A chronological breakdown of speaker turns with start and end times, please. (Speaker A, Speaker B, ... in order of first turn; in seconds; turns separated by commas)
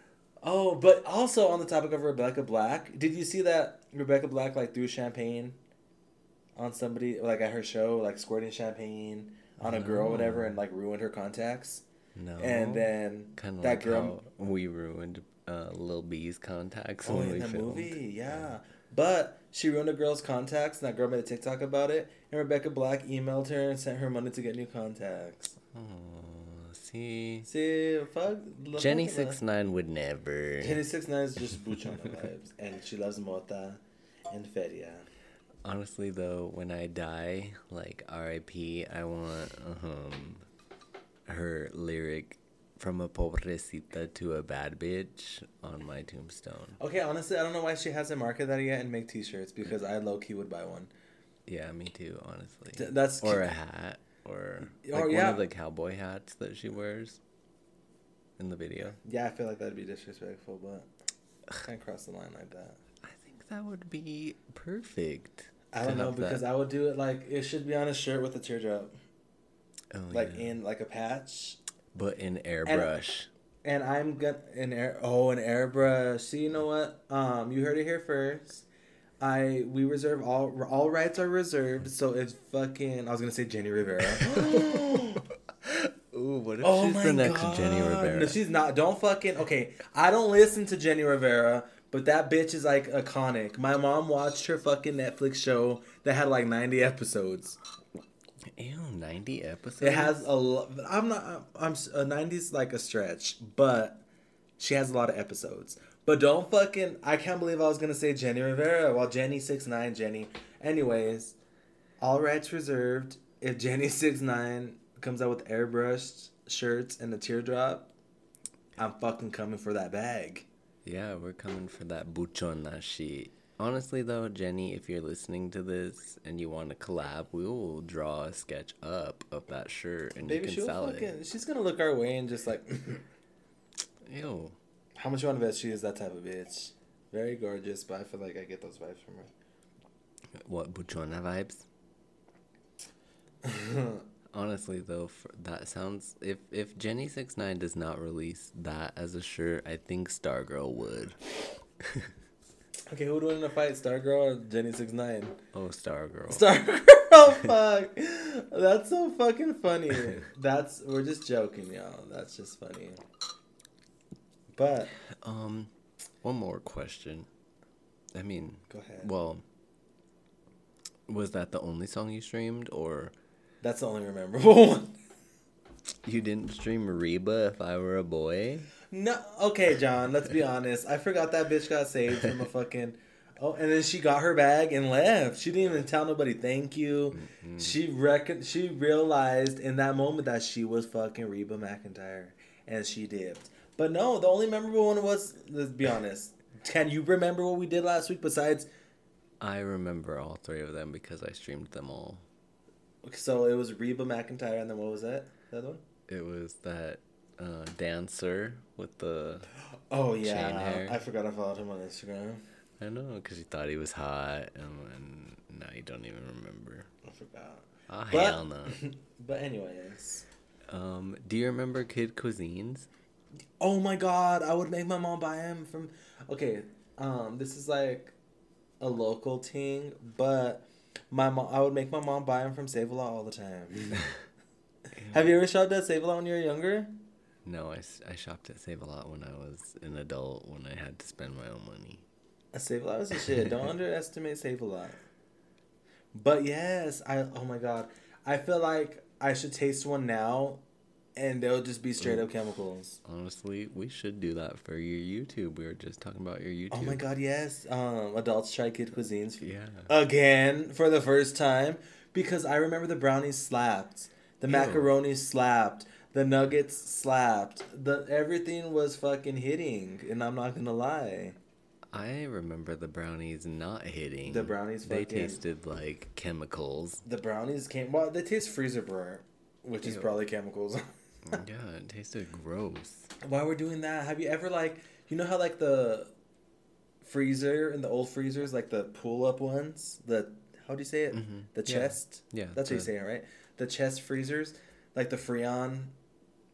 Speaker A: 0.4-5.6, Speaker A: 6.5-11.8, Speaker B: 9.6-10.6, Speaker B: 12.1-18.3, Speaker A: 12.4-14.2, Speaker A: 17.0-25.5, Speaker B: 25.7-27.5, Speaker A: 27.4-29.4, Speaker B: 28.8-30.8, Speaker A: 30.6-35.0, Speaker B: 35.6-40.4, Speaker B: 41.3-46.8, Speaker A: 46.8-50.9, Speaker B: 51.5-57.2, Speaker A: 52.8-53.5, Speaker A: 54.7-55.5, Speaker B: 58.4-59.0, Speaker A: 59.0-60.9, Speaker A: 61.6-62.8, Speaker B: 63.0-66.4, Speaker A: 65.7-68.9, Speaker B: 69.9-70.6, Speaker A: 70.1-71.6, Speaker B: 71.9-73.3, Speaker A: 72.7-72.9, Speaker A: 73.6-78.6, Speaker A: 79.2-85.2, Speaker B: 84.1-88.4, Speaker A: 86.6-97.6, Speaker B: 98.5-100.2, Speaker A: 99.8-104.0, Speaker A: 104.6-111.3, Speaker A: 112.0-117.9, Speaker A: 118.8-120.5, Speaker B: 120.8-131.1, Speaker A: 130.2-133.0, Speaker B: 134.0-134.6, Speaker A: 135.0-139.3, Speaker B: 140.4-141.7, Speaker A: 143.4-144.0, Speaker B: 144.3-151.2, Speaker B: 151.8-152.1, Speaker A: 152.9-155.4, Speaker B: 155.5-156.5, Speaker A: 156.3-163.0, Speaker A: 164.5-164.9, Speaker B: 165.1-167.3, Speaker B: 168.1-169.4, Speaker A: 168.7-169.1, Speaker B: 171.1-173.1, Speaker A: 173.6-175.0, Speaker B: 176.0-178.7, Speaker A: 178.9-198.7, Speaker B: 187.1-187.8, Speaker B: 199.4-202.2, Speaker A: 203.0-205.8, Speaker B: 206.1-209.5, Speaker A: 209.9-212.4, Speaker B: 210.2-211.0, Speaker B: 212.8-216.9, Speaker A: 217.1-220.2, Speaker B: 217.9-218.8, Speaker B: 220.7-222.9, Speaker A: 223.6-228.1, Speaker A: 228.8-234.1, Speaker B: 235.0-235.3, Speaker A: 235.1-236.9, Speaker B: 237.4-242.0, Speaker A: 242.5-245.0, Speaker A: 246.1-250.6, Speaker A: 251.2-253.0, Speaker B: 252.0-252.3, Speaker B: 253.0-257.0, Speaker A: 256.7-271.4, Speaker B: 259.4-259.9, Speaker B: 264.4-265.0, Speaker B: 271.9-277.0, Speaker A: 274.3-275.4, Speaker A: 277.0-280.9, Speaker B: 279.8-280.1, Speaker B: 281.2-283.1, Speaker A: 283.2-286.1, Speaker A: 287.0-295.9, Speaker B: 291.1-292.9